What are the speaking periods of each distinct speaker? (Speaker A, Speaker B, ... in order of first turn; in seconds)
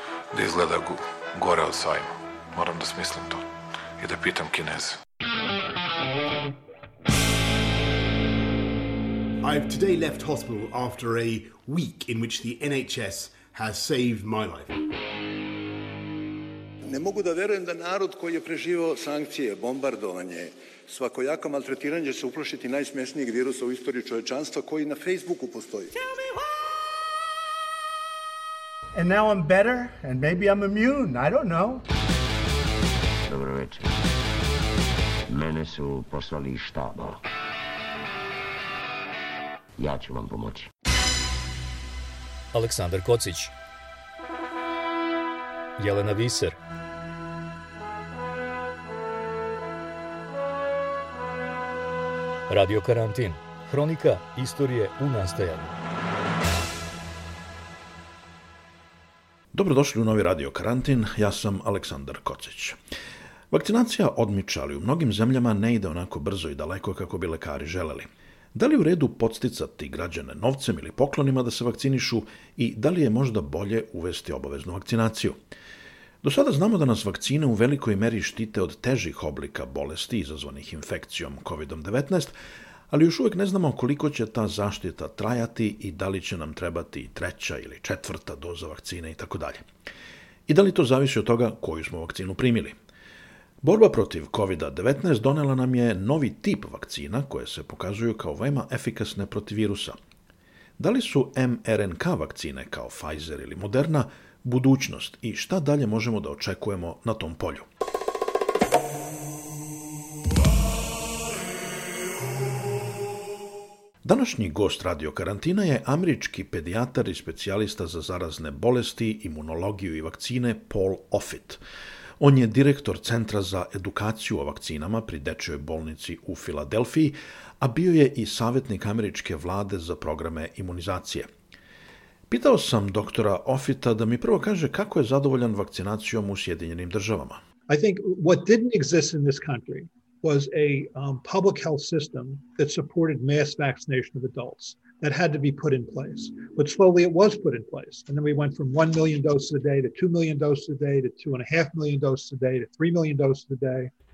Speaker A: 0.3-3.4, 4.0-5.0
Speaker B: 9.4-14.8
Speaker C: 16.9-26.0
Speaker D: 28.9-31.8
Speaker E: 33.3-33.9, 35.3-37.2, 39.8-40.7
Speaker F: 42.5-43.5, 45.8-46.6, 52.5-55.8
Speaker G: 59.5-62.8, 63.5-75.4, 76.2-82.3, 82.9-89.6, 90.5-92.7, 93.6-100.0, 100.8-107.7, 114.0-121.6, 122.2-131.3, 132.3-137.4
Speaker H: 137.7-153.9